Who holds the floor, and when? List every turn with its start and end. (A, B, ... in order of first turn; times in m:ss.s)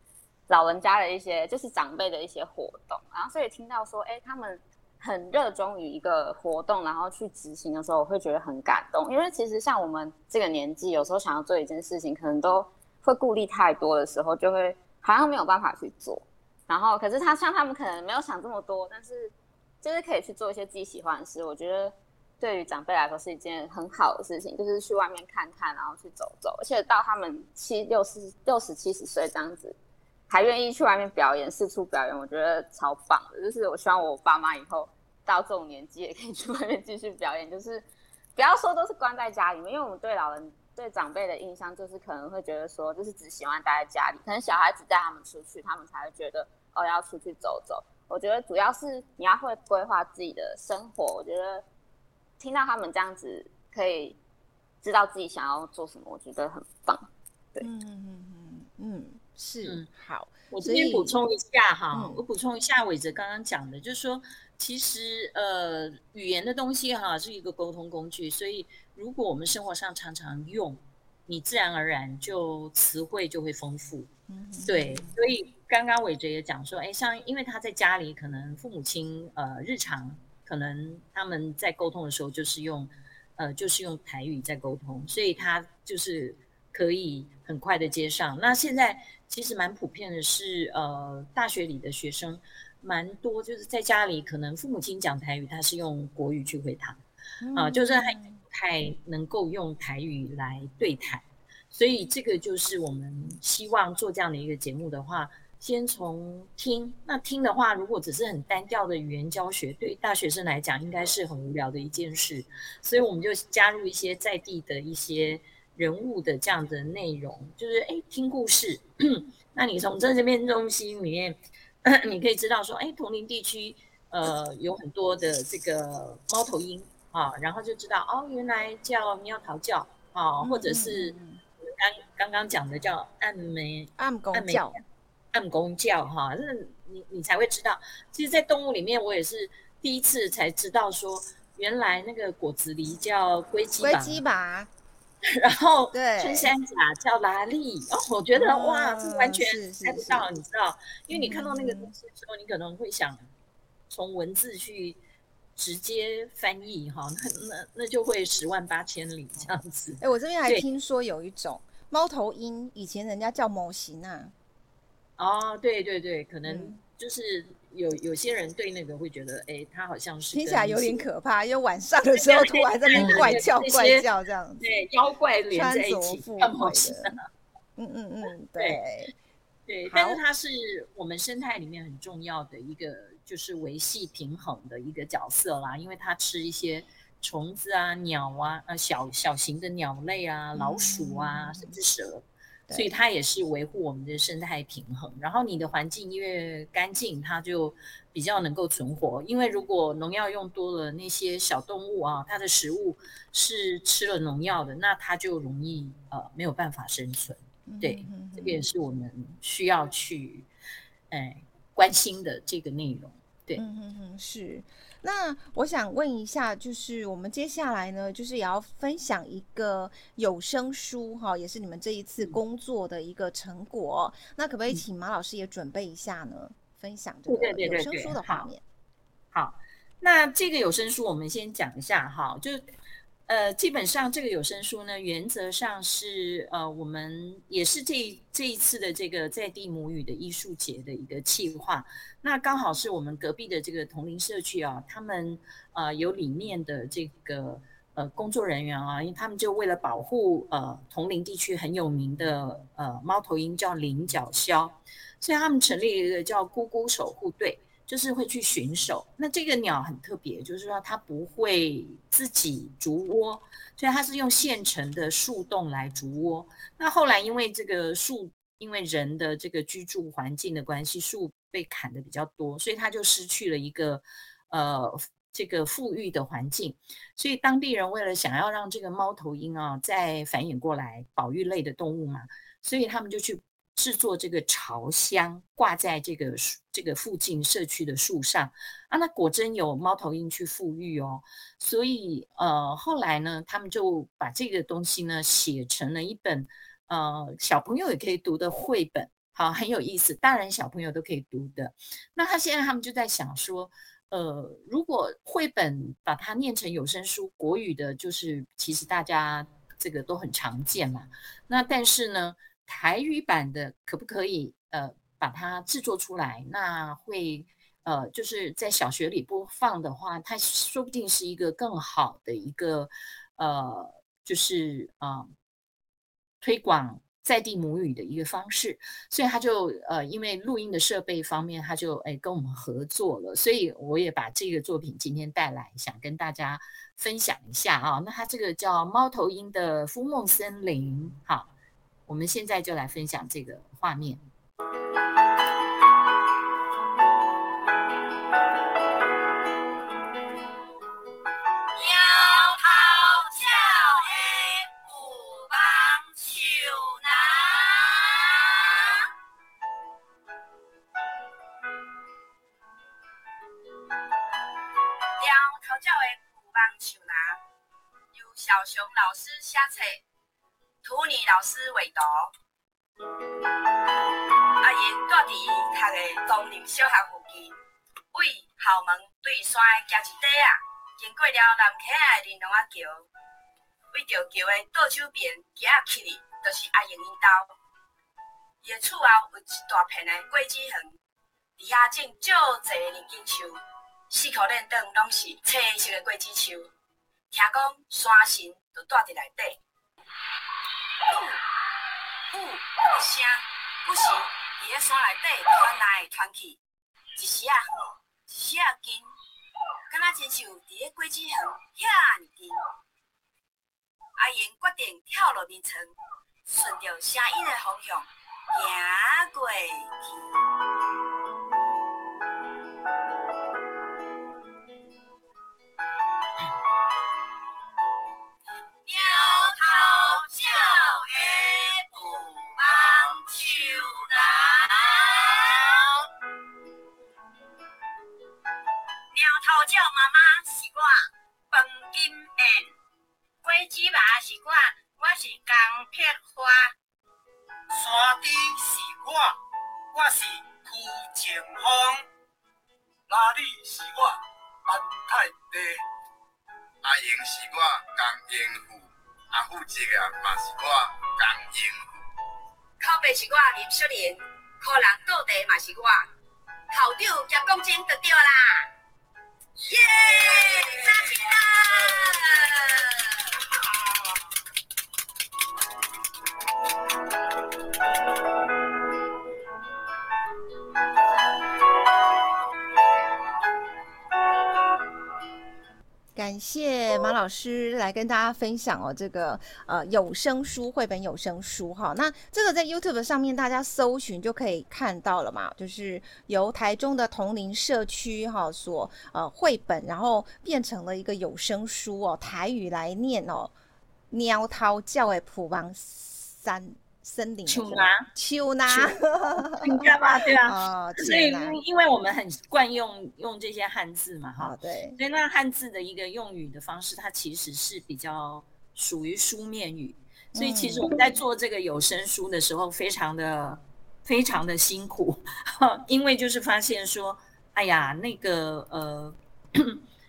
0:00.5-0:29.8 A
0:30.3-0:51.6 A
0:52.4-0:54.2 A
0:54.8-0:57.6 A
0:57.6-1:01.2 B
0:59.6-0:59.9 C
1:00.5-1:14.1 C
1:01.9-1:02.2 B
1:14.3-1:15.2 B
1:14.6-1:37.0 C
1:37.4-1:38.4 B
1:37.5-2:14.8 C
2:10.4-2:11.4 B
2:14.0-2:14.8 B
2:15.3-2:24.2 C
2:23.8-2:24.7 B
2:25.2-2:33.3 C
2:25.9-2:26.5 B
2:28.3-2:30.3 B
2:31.1-2:31.9 B
2:33.9-2:35.0 C
2:35.6-2:40.6 C
2:40.0-2:44.3 B
2:45.2-2:51.0 C
2:46.5-2:46.8 B
2:50.3-2:54.7 B
2:52.2-2:54.1 C
2:54.6-2:57.2 C
2:55.5-2:57.1 B
2:57.8-2:59.1 B
2:59.7-3:30.5 C
2:59.9-3:00.2 B
3:10.6-3:11.8 B
3:27.7-3:28.7 B
3:31.1-3:33.6 C
3:33.6-3:48.6 B
3:47.3-3:48.5 C
3:49.3-3:52.7 C
3:53.3-5:25.3 C
5:26.4-5:41.5 C
5:42.1-5:44.2 C
5:51.8-5:58.9 D
6:05.2-6:07.4 D
6:08.1-6:10.0 D
6:10.8-6:12.3 D
6:14.6-6:17.6 D
6:18.1-6:23.1 D
6:23.9-6:27.5 D
6:28.6-6:31.0 D
6:31.6-6:33.6 D
6:34.1-6:36.7 D
6:37.3-6:39.6 D
6:41.1-6:41.4 D
6:42.3-6:46.6 D
6:47.2-6:47.7 D
6:48.3-6:49.1 D
6:49.9-6:52.6 D
6:54.2-6:55.9 D
6:56.5-7:00.1 D
7:08.9-7:15.8 D
7:19.1-7:20.9 D
7:21.8-7:22.3 D
7:23.4-7:26.6 D
7:27.7-7:29.3 E
7:29.9-7:32.0 E
7:33.1-7:34.2 E
7:34.7-7:35.8 E
7:36.8-7:42.0 F
7:42.8-7:46.1 D
7:46.7-7:48.7 D
7:49.6-7:52.9 D
8:06.2-8:23.5 B
8:24.1-8:31.6 B
8:27.5-8:28.1 C
8:28.7-8:49.8 C
8:34.4-8:35.0 B
8:40.4-8:41.0 B